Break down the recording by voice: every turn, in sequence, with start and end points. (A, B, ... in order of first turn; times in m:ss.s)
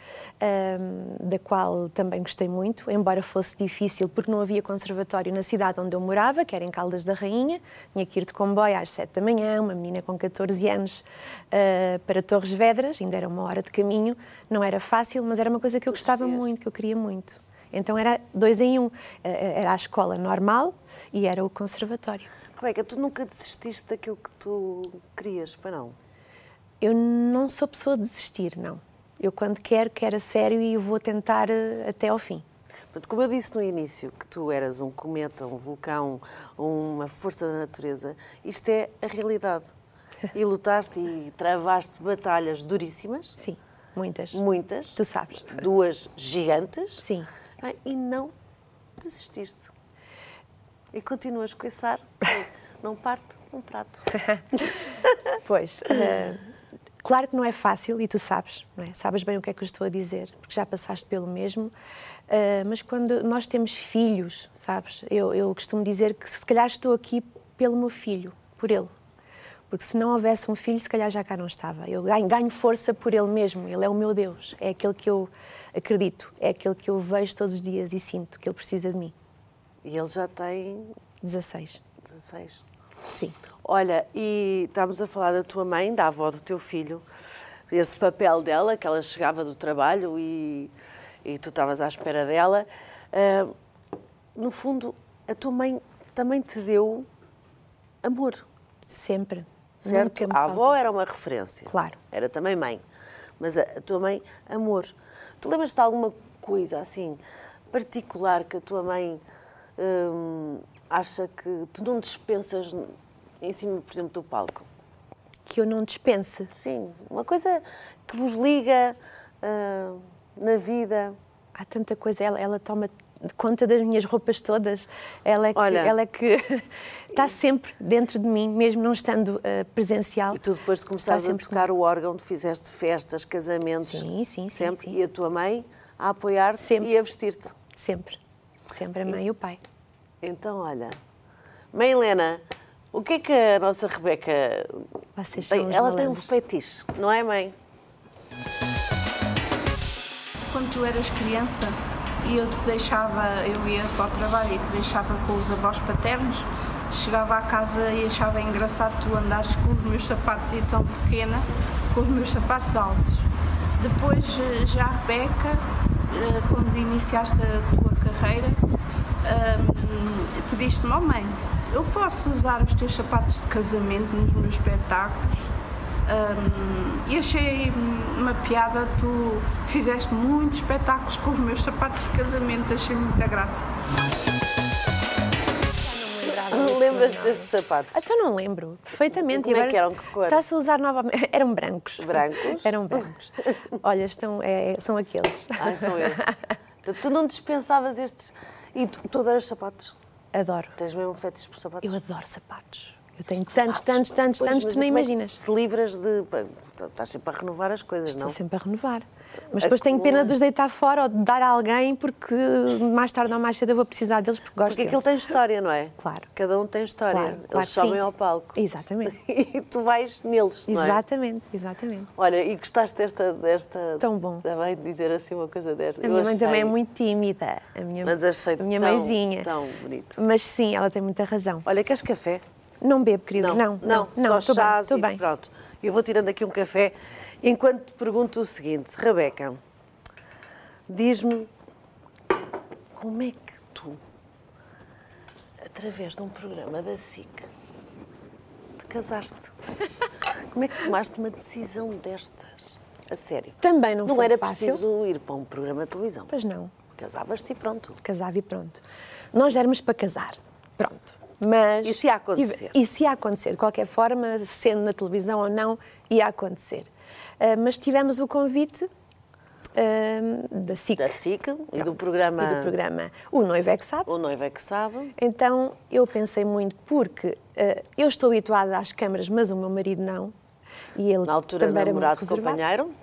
0:00.4-0:22.3 A
0:15.9-0:16.4 B
0:22.6-0:26.0 B
0:26.8-0:32.4 A
0:32.9-0:39.7 B
0:40.3-0:43.4 B
0:43.4-0:44.4 A
0:44.3-0:47.0 B
0:44.9-0:45.6 A
0:47.0-0:47.3 A
0:47.6-0:48.3 B
0:49.0-0:49.7 B
0:50.9-0:54.1 B
0:55.4-0:56.4 A
0:57.0-1:01.7 A
1:02.3-1:08.9 A
1:09.7-1:19.1 A
1:19.8-1:20.9 B
1:21.2-1:21.8 A
1:22.0-1:22.6 B
1:23.6-1:27.0 B
1:27.7-1:30.7 B
1:31.2-1:33.5 B
1:34.4-1:37.1 B
1:38.0-1:38.4 B
1:38.9-1:40.7 A
1:39.8-1:42.8 B
1:41.7-1:42.0 A
1:43.4-1:47.2 B
1:47.7-1:49.2 B
1:49.8-1:54.7 B
1:55.5-1:56.5 A
1:56.6-2:01.2 B
2:01.6-2:10.4 A
2:05.6-2:06.0 B
2:10.3-2:17.6 B
2:11.1-2:11.7 A
2:13.8-2:15.0 A
2:16.6-2:16.9 A
2:17.7-2:18.2 A
2:18.7-2:19.6 A
2:20.2-2:21.0 B
2:21.7-2:22.4 B
2:22.9-2:24.8 B
2:25.2-2:26.3 A
2:25.5-2:27.5 B
2:30.5-2:43.3 C
2:43.8-2:48.6 C
2:49.2-2:55.5 C
2:56.1-3:03.7 C
3:05.8-3:16.3 A
3:06.5-3:08.0 B
3:09.1-3:10.4 B
3:12.0-3:13.0 B
3:15.6-3:16.3 B
3:16.8-3:19.9 B
3:20.3-3:20.8 A
3:20.8-3:22.0 B
3:21.8-3:25.4 A
3:23.7-3:28.4 B
3:28.1-3:35.0 A
3:29.6-3:30.4 B
3:34.7-3:41.0 B
3:36.0-3:36.3 A
3:37.1-3:38.0 A
3:38.5-3:39.2 A
3:40.7-3:42.1 A
3:42.2-3:46.8 B
3:44.0-3:44.4 A
3:46.0-3:49.5 A
3:48.0-3:50.2 B
3:50.2-3:51.6 A
3:51.6-3:52.4 B
3:52.8-3:55.2 A
3:53.4-3:59.6 B
4:00.9-4:01.5 B
4:02.9-4:04.0 B
4:05.6-4:07.5 B
4:08.8-4:09.5 B
4:10.5-4:16.3 B
4:13.6-4:14.8 A
4:16.3-4:16.7 A
4:16.9-4:18.0 B
4:18.0-4:28.9 A
4:21.8-4:22.8 B
4:29.8-4:31.2 A
4:31.0-4:32.7 B
4:31.8-4:34.1 A
4:34.1-4:35.1 B
4:35.2-4:40.3 A
4:41.0-4:42.6 A
4:41.2-4:42.9 B